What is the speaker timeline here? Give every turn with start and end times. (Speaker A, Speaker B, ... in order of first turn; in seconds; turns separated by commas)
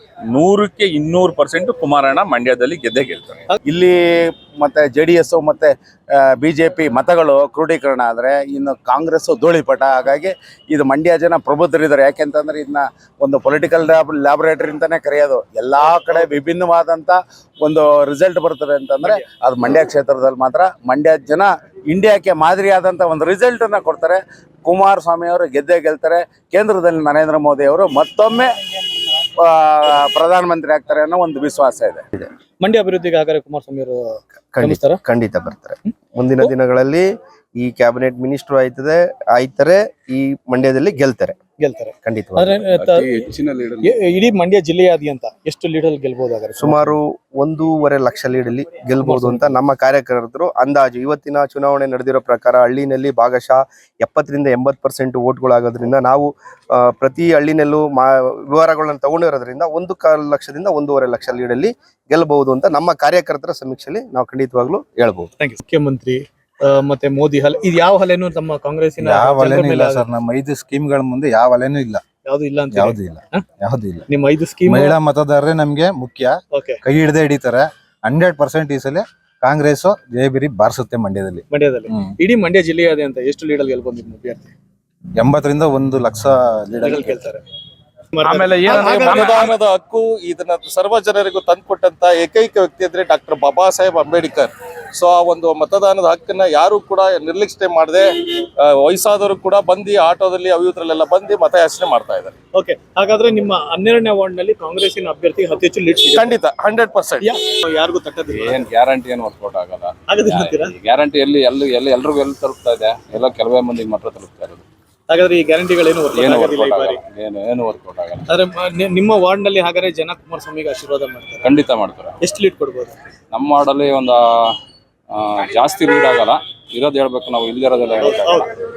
Speaker A: 0.4-3.2, Speaker B: 3.6-5.7, Speaker B: 6.3-28.6, Speaker C: 19.0-19.3, Speaker B: 29.4-32.0, Speaker C: 32.6-35.0, Speaker D: 34.6-37.1, Speaker D: 37.6-41.4, Speaker C: 41.6-43.1, Speaker D: 42.0-42.6, Speaker E: 42.8-43.8, Speaker C: 43.8-46.9, Speaker D: 46.6-56.3, Speaker C: 49.0-49.5, Speaker D: 56.9-65.3, Speaker C: 65.4-70.1, Speaker F: 69.0-72.0, Speaker C: 72.3-73.4, Speaker F: 72.7-74.0, Speaker C: 74.1-75.0, Speaker F: 74.7-81.5, Speaker C: 76.5-76.8, Speaker C: 81.5-84.5, Speaker F: 85.2-87.2, Speaker C: 86.8-87.4, Speaker C: 88.2-89.5, Speaker E: 88.3-98.1, Speaker E: 98.6-102.3, Speaker C: 102.5-106.4, Speaker E: 106.2-107.2, Speaker C: 107.2-108.7, Speaker A: 108.3-114.6, Speaker C: 110.1-110.7, Speaker C: 115.1-117.0, Speaker A: 116.2-118.2, Speaker C: 118.3-121.5, Speaker A: 121.5-122.2, Speaker C: 122.2-122.9, Speaker A: 123.3-124.2, Speaker A: 125.2-128.5, Speaker C: 128.0-128.5